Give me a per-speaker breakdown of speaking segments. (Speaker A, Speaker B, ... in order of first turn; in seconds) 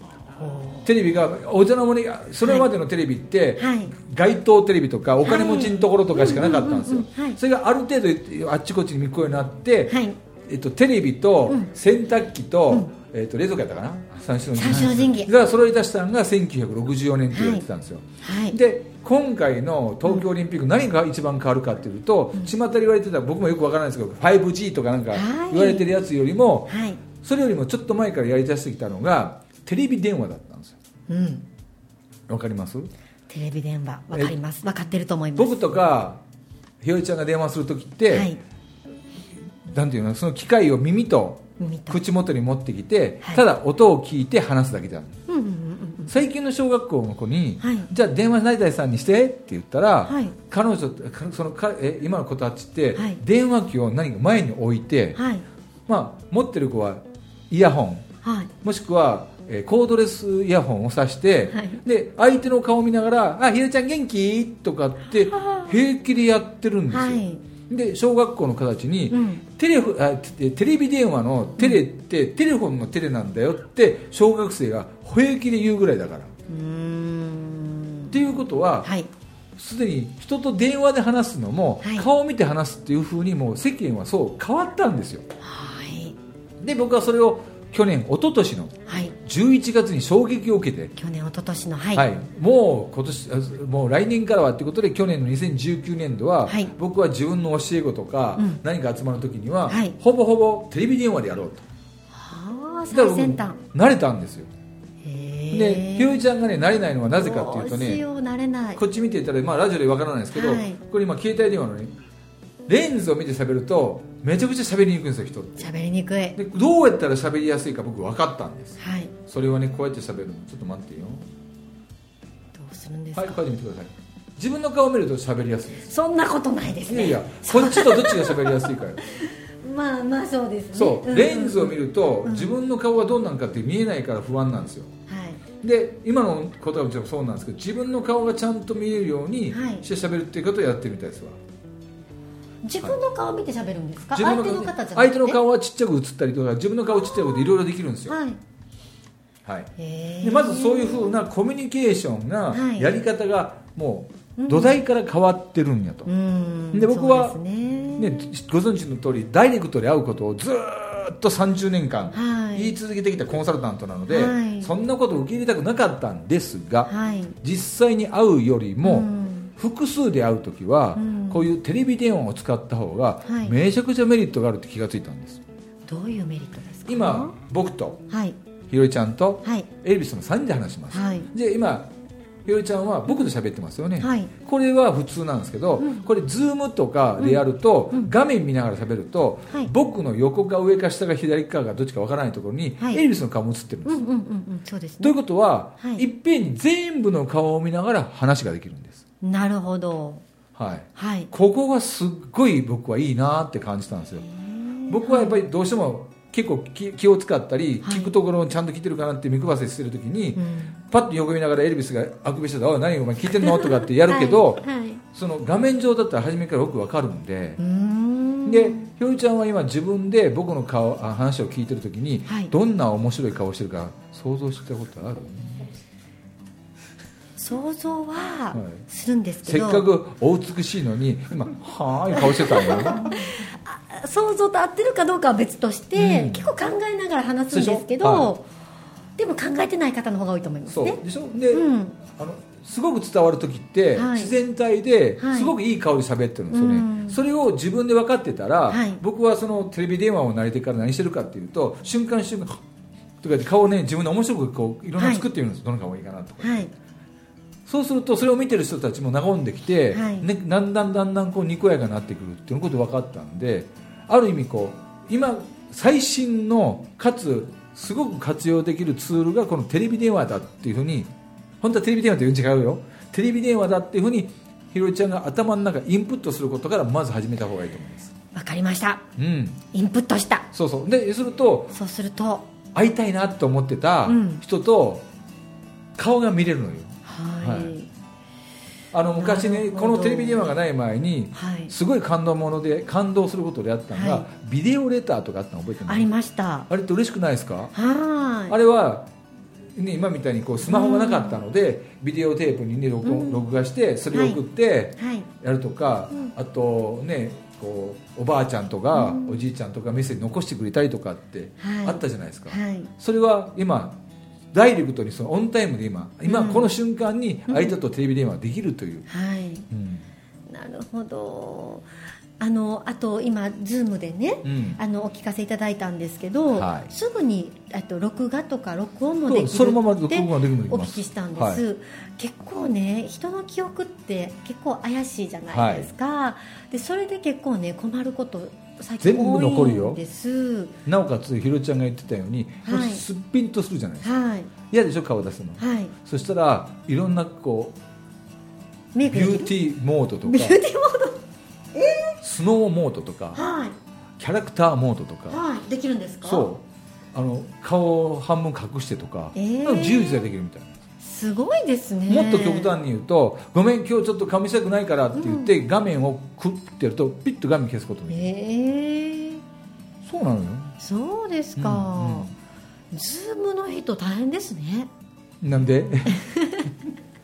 Speaker A: 0.4-0.9, 2.4-2.7, 3.6-3.9, 5.2-7.4, 9.9-10.2, 14.6-15.3, 17.3-17.6, 18.2-18.6, 25.1-25.9, 26.7-27.0, 31.1-31.4, 33.3-35.6, 38.1-38.4, 41.6-42.0, 45.3-46.1, 47.6-47.9, 50.0-50.4, 55.1-55.5, 58.2-58.5, 61.5-61.8, 65.2-65.8, 66.9-67.4, 69.1-69.4, 76.5-78.1, 78.8-79.1, 81.8-82.1, 85.4-86.2, 88.8-89.2, 91.0-92.1, 96.5-96.7, 98.3-98.6, 99.7-99.9, 102.1-103.6, 105.0-106.2, 107.1-108.8, 110.3-110.8, 115.6-116.4, 118.8-119.1, 122.5-123.4, 125.8-132.5, 135.1-135.4, 139.5-139.8, 142.6-145.4, 147.0-147.5, 148.1-148.4, 149.8-151.2, 152.5-152.9, 154.4-154.8, 156.1-158.2, 162.1-162.8, 164.1-164.7, 166.9-167.4, 168.8-169.5, 170.9-171.5, 173.2-173.5, 175.9-177.3, 178.1-178.4, 180.9-181.3, 184.0-184.3, 185.8-186.1, 187.2-188.1, 193.8-195.2, 195.8-196.1, 199.2-200.2, 200.9-201.3, 204.3-205.4, 207.8-208.1, 210.4-210.8, 213.3-215.0, 217.6-218.9, 222.3-222.5, 227.4-229.9, 232.1-238.5, 239.2-242.0, 243.9-244.3, 245.2-245.5, 246.5-247.2, 248.7-249.0, 255.0-255.2, 256.4-256.7, 259.9-260.3, 278.3-279.1, 279.7-280.5, 281.7-282.5, 284.1-284.4, 287.0-287.9, 289.1-290.6, 291.3-291.7, 293.9-294.3, 295.9-296.7, 297.7-298.6, 300.6-301.4, 303.0-303.4, 304.1-304.4, 305.0-305.3, 308.9-309.5, 311.6-312.9, 316.2-316.7, 317.5-317.7, 319.1-319.7, 320.5-321.9, 322.4-340.8, 342.6-343.0, 344.0-344.5, 345.6-345.9, 348.9-349.5, 350.2-351.2, 351.7-352.2, 353.3-353.7, 355.3-356.5, 359.3-360.3, 361.0-362.7, 365.1-365.5, 368.1-369.4, 370.8-372.3, 372.9-374.9, 376.1-376.7
Speaker B: 0.8-30.8, 32.3-32.9, 35.4-36.2, 36.8-38.3, 39.6-45.2, 46.1-55.2, 55.9-58.0, 58.6-76.3, 78.1-78.9, 79.6-85.2, 86.6-90.9, 91.9-101.7, 102.9-104.5, 105.5-108.0, 108.8-111.9, 112.7-115.7, 116.3-121.2, 123.1-125.9, 126.9-129.0, 130.7-134.9, 135.6-141.4, 144.1-148.2, 149.4-149.7, 150.2-156.1, 156.7-157.4, 158.0-166.9, 167.4-175.4, 176.9-178.0, 178.7-181.9, 182.4-194.1, 195.0-199.0, 200.5-204.3, 204.9-217.6, 218.4-225.7, 228.5-228.8, 229.4-233.2, 235.9-236.5, 237.5-238.3, 240.7-252.6, 253.2-256.7, 257.6-271.1, 271.6-278.1, 279.2-279.6, 280.5-281.7, 282.7-285.0, 285.9-287.7, 288.9-296.1, 296.7-297.7, 298.5-299.1, 299.7-314.0, 314.5-319.1, 319.7-320.1, 324.4-324.8, 326.5-326.9, 329.3-331.6, 335.5-335.9, 339.0-340.0, 340.8-344.1, 344.7-347.8, 349.0-350.6, 352.2-353.4, 354.2-355.4, 356.2-360.8, 362.1-368.3, 370.0-370.7, 371.6-372.3, 375.4-376.2